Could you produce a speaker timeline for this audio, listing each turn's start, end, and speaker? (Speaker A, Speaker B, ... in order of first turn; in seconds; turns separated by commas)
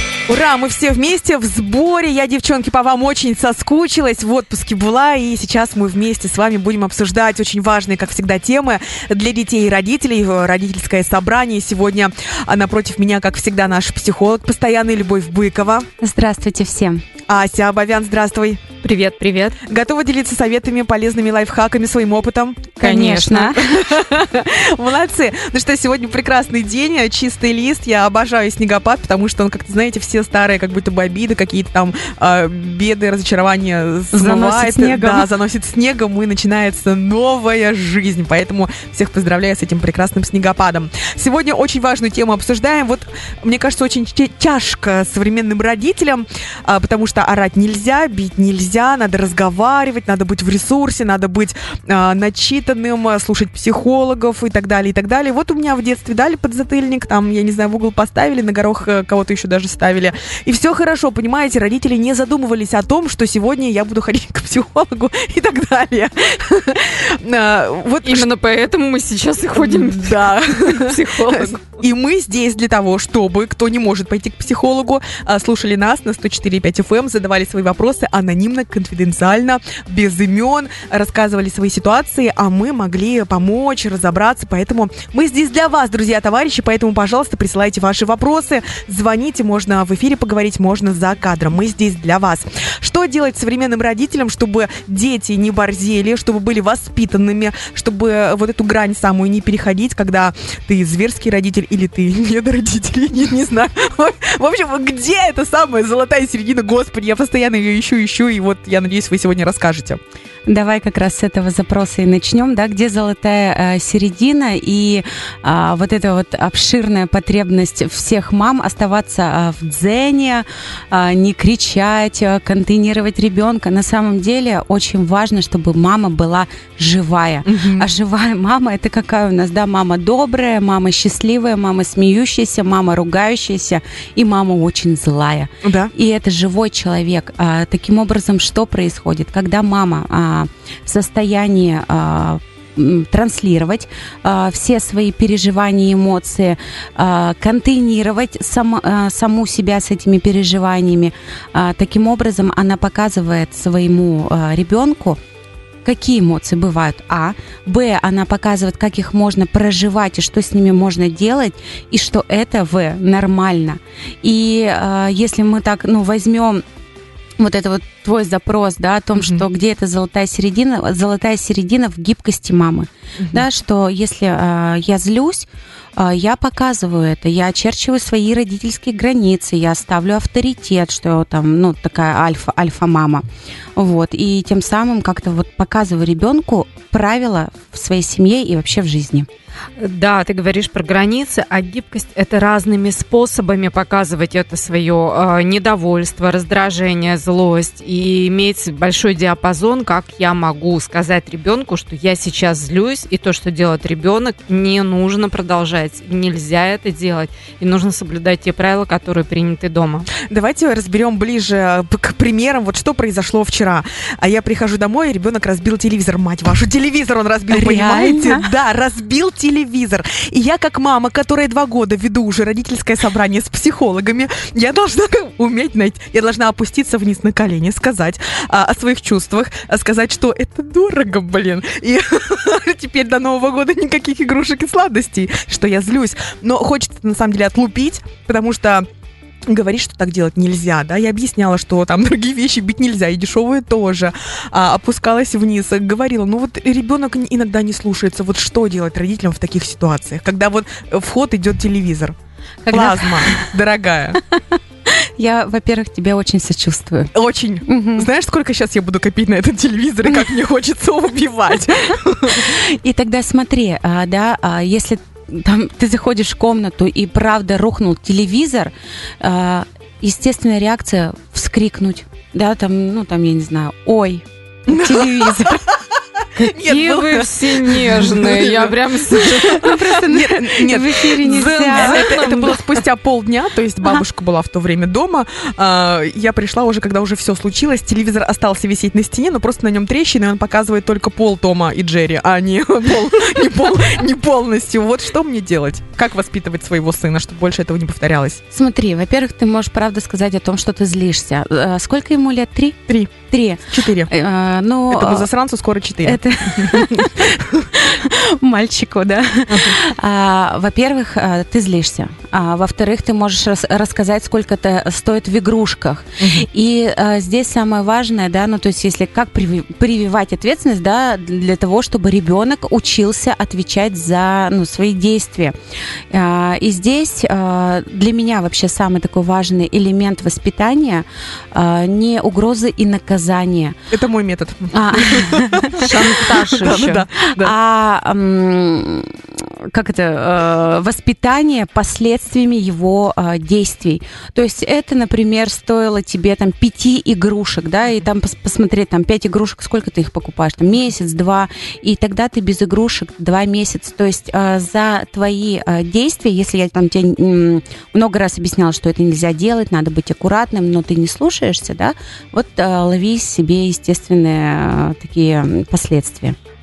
Speaker A: 0.3-15.9, Speaker B: 16.0-17.0, Speaker A: 17.3-18.6, Speaker C: 18.8-19.6, Speaker A: 19.7-68.3, Speaker B: 22.8-23.6, Speaker B: 34.1-35.3, Speaker C: 68.0-71.6, Speaker A: 69.6-110.0, Speaker B: 110.5-155.2, Speaker A: 127.5-127.9, Speaker A: 135.6-135.9, Speaker B: 155.8-166.6, Speaker B: 167.4-183.2, Speaker A: 169.2-169.4, Speaker A: 173.2-173.5, Speaker B: 183.8-189.3, Speaker C: 189.8-210.1, Speaker A: 210.2-238.9, Speaker B: 217.5-218.5, Speaker A: 239.5-252.2, Speaker B: 252.7-253.5, Speaker A: 252.7-254.2, Speaker B: 254.3-257.1, Speaker A: 257.1-262.6, Speaker B: 257.7-258.1, Speaker B: 262.3-275.7, Speaker A: 274.7-275.8, Speaker B: 276.4-277.2, Speaker A: 276.4-298.4, Speaker C: 276.6-279.8, Speaker B: 279.5-282.6, Speaker C: 281.2-282.6, Speaker B: 298.5-305.3, Speaker A: 302.9-303.1, Speaker A: 303.7-304.1, Speaker A: 304.9-307.7, Speaker B: 306.0-325.6, Speaker A: 309.5-309.8, Speaker A: 316.2-316.5, Speaker B: 326.1-333.8, Speaker A: 333.9-337.5, Speaker B: 334.7-366.4, Speaker C: 335.8-337.0